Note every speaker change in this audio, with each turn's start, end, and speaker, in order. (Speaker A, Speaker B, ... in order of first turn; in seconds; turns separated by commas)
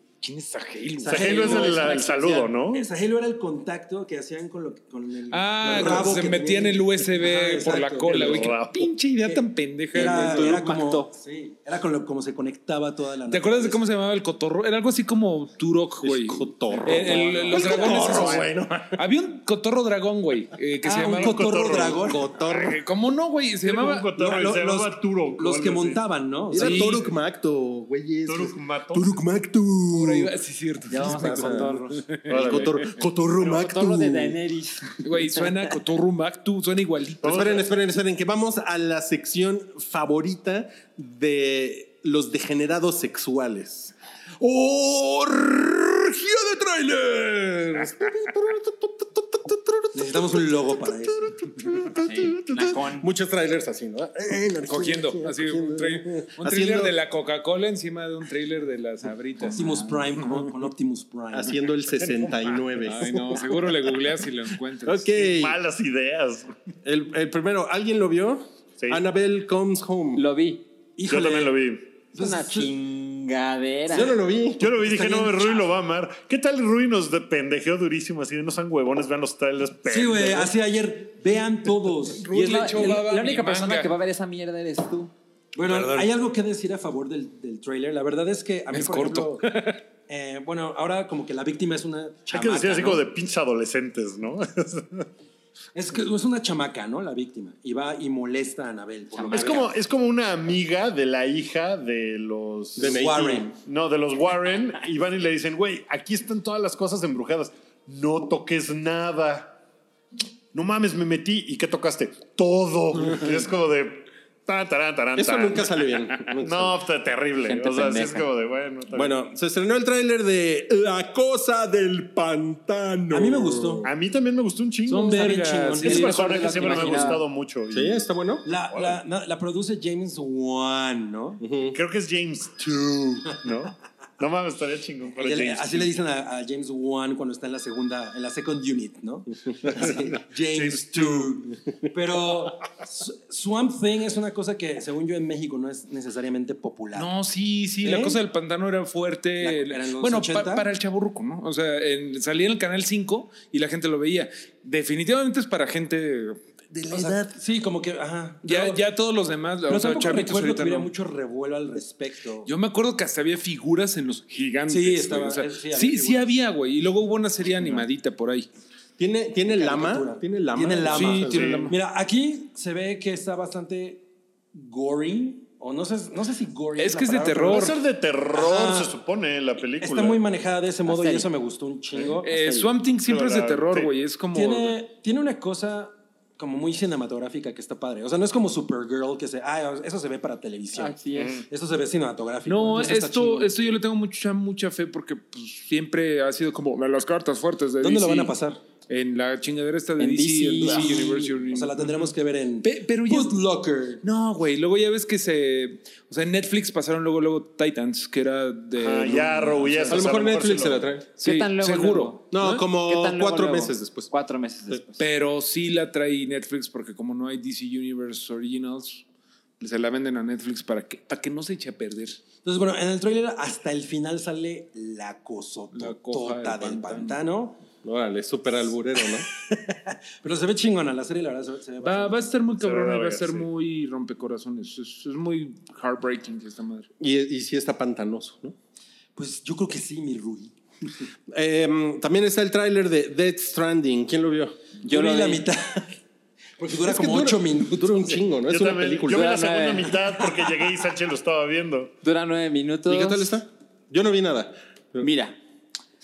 Speaker A: 0.2-1.8, Speaker B: 1.0-8.5, Speaker C: 1.1-2.9, Speaker A: 5.3-10.6, Speaker D: 5.7-6.1, Speaker C: 8.1-8.9, Speaker B: 9.9-13.8, Speaker E: 10.0-11.1, Speaker A: 13.3-21.6, Speaker D: 16.0-19.0, Speaker B: 17.5-18.5, Speaker C: 17.5-18.5, Speaker B: 20.8-22.3, Speaker C: 21.1-22.2, Speaker D: 21.7-22.8, Speaker A: 22.5-24.1, Speaker C: 23.6-26.0, Speaker B: 24.2-27.0, Speaker D: 26.5-30.3, Speaker A: 26.5-27.1, Speaker C: 28.2-29.2, Speaker A: 29.9-32.8, Speaker E: 30.9-32.0, Speaker D: 31.0-31.8, Speaker C: 32.3-32.8, Speaker D: 32.3-34.4, Speaker E: 33.4-35.5, Speaker A: 35.0-37.6, Speaker C: 37.2-37.6, Speaker D: 37.2-56.9, Speaker B: 49.9-51.3, Speaker E: 52.0-53.1, Speaker A: 54.7-59.7, Speaker E: 59.5-60.1, Speaker B: 59.5-61.5, Speaker D: 61.3-63.9, Speaker A: 62.9-65.2, Speaker D: 64.8-65.6, Speaker C: 65.2-66.5, Speaker D: 66.8-70.2, Speaker E: 70.2-70.6, Speaker B: 71.0-71.5, Speaker C: 71.1-71.9, Speaker B: 72.1-72.7, Speaker E: 72.1-74.2, Speaker D: 73.9-74.7, Speaker C: 74.6-80.5, Speaker B: 74.8-75.6, Speaker B: 79.8-83.0, Speaker A: 82.1-83.9, Speaker E: 82.3-85.1, Speaker B: 85.5-89.5, Speaker A: 85.6-86.0, Speaker A: 88.7-89.8, Speaker B: 90.1-93.0, Speaker C: 92.3-95.0, Speaker E: 92.3-93.0, Speaker B: 95.7-99.7, Speaker E: 99.1-99.7, Speaker C: 99.3-109.6, Speaker D: 102.8-103.5, Speaker B: 102.8-103.5, Speaker C: 110.5-119.2, Speaker D: 115.1-116.8, Speaker E: 117.4-118.3, Speaker D: 118.9-123.9, Speaker B: 123.1-123.9, Speaker C: 123.8-125.3, Speaker B: 124.9-127.2, Speaker A: 124.9-126.9, Speaker C: 125.8-128.0, Speaker E: 125.8-127.2, Speaker D: 127.7-128.5, Speaker B: 128.4-131.4, Speaker C: 128.7-129.0, Speaker D: 131.4-131.8, Speaker C: 131.7-135.9, Speaker B: 135.2-147.1, Speaker C: 140.5-141.4, Speaker A: 146.9-157.2, Speaker B: 147.8-148.2, Speaker B: 149.4-150.7, Speaker B: 156.9-158.8, Speaker A: 158.4-160.9, Speaker B: 159.7-162.5, Speaker A: 162.4-168.5, Speaker B: 164.7-166.3, Speaker D: 169.0-171.7, Speaker B: 169.4-177.8, Speaker A: 170.9-171.7, Speaker C: 171.4-171.7, Speaker A: 176.8-177.8, Speaker C: 177.5-180.2, Speaker B: 178.3-178.9, Speaker B: 179.8-182.7, Speaker E: 180.8-181.3, Speaker A: 182.2-184.8, Speaker C: 183.1-183.9, Speaker B: 184.3-193.5, Speaker E: 190.7-191.4, Speaker C: 191.1-191.4, Speaker A: 192.4-198.3, Speaker B: 197.8-198.6, Speaker A: 198.9-202.1, Speaker E: 200.0-201.1, Speaker B: 200.6-204.0, Speaker A: 202.6-203.4, Speaker A: 204.0-210.0, Speaker C: 208.8-210.9, Speaker D: 209.9-211.1, Speaker A: 211.2-212.6, Speaker E: 211.2-215.0, Speaker D: 212.3-214.1, Speaker A: 215.0-219.0, Speaker A: 219.6-222.2, Speaker B: 222.4-227.6, Speaker A: 225.7-227.2, Speaker D: 227.8-229.3, Speaker B: 229.0-232.4, Speaker A: 231.8-236.9, Speaker C: 232.6-233.5, Speaker D: 237.0-238.6, Speaker B: 239.2-240.5, Speaker D: 241.3-244.6, Speaker E: 244.8-245.5, Speaker B: 244.8-245.9, Speaker B: 246.6-248.2, Speaker D: 246.8-249.4, Speaker C: 248.5-251.9, Speaker E: 249.1-250.1, Speaker E: 252.0-253.4, Speaker D: 252.9-255.1, Speaker E: 255.0-255.4